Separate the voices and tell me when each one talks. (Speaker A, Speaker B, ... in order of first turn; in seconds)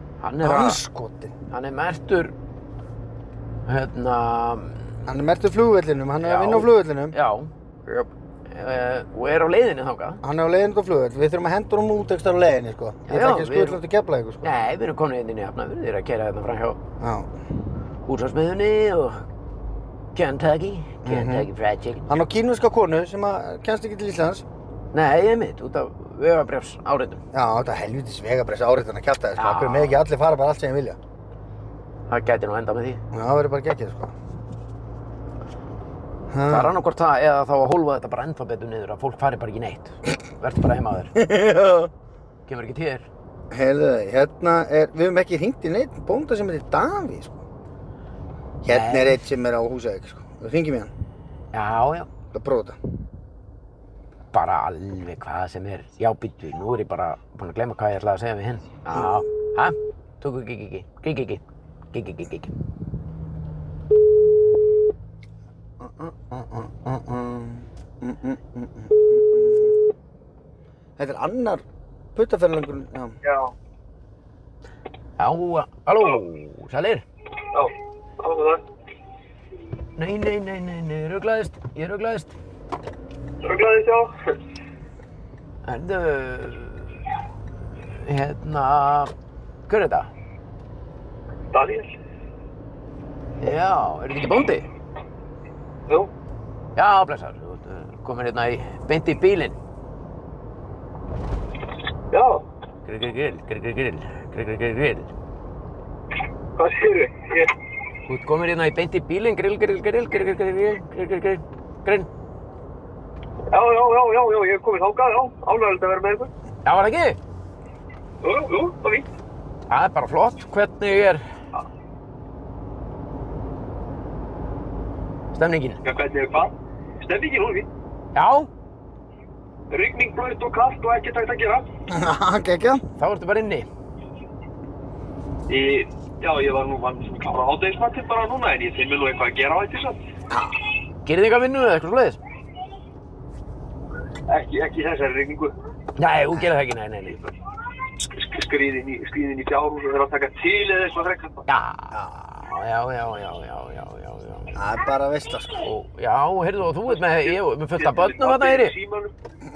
Speaker A: 0.2-0.8, 1.5-2.3, 3.7-5.0, 6.2-10.2, 13.1-13.8, 14.4-16.8, 18.1-19.2, 20.1-22.1, 24.9-27.2, 29.4-30.0, 32.1-33.0, 36.5-41.1, 42.5-43.1, 48.7-49.2, 51.5-52.1, 54.3-62.5, 75.2-77.0, 80.0-82.3, 85.6-87.0, 87.9-89.1, 89.7-90.1, 93.4-94.7, 96.8-99.6, 102.8-105.1, 108.1-112.1, 116.6-117.2, 119.7-121.2, 125.3-125.8, 128.1-128.5, 133.0-133.7, 141.0-142.2, 146.0-147.3, 151.5-154.5, 155.6-158.7
Speaker B: 0.4-1.3, 5.0-7.1, 10.2-14.5, 17.0-17.3, 21.0-21.5, 22.1-24.4, 27.3-31.0, 33.1-34.1, 36.3-36.7, 41.1-41.9, 43.5-47.4, 48.6-50.9, 52.3-52.8, 58.9-59.2, 65.8-69.8, 71.0-71.6, 72.1-73.2, 131.9-132.8, 140.3-140.6, 154.5-155.5
Speaker C: 73.2-73.5, 77.5-78.6, 83.4-84.4, 91.5-91.9, 102.1-102.5, 106.5-107.5, 113.5-116.3, 118.2-119.1, 125.8-127.7, 129.7-131.7, 135.5-140.0, 144.3-145.5, 148.0-151.4, 156.9-159.1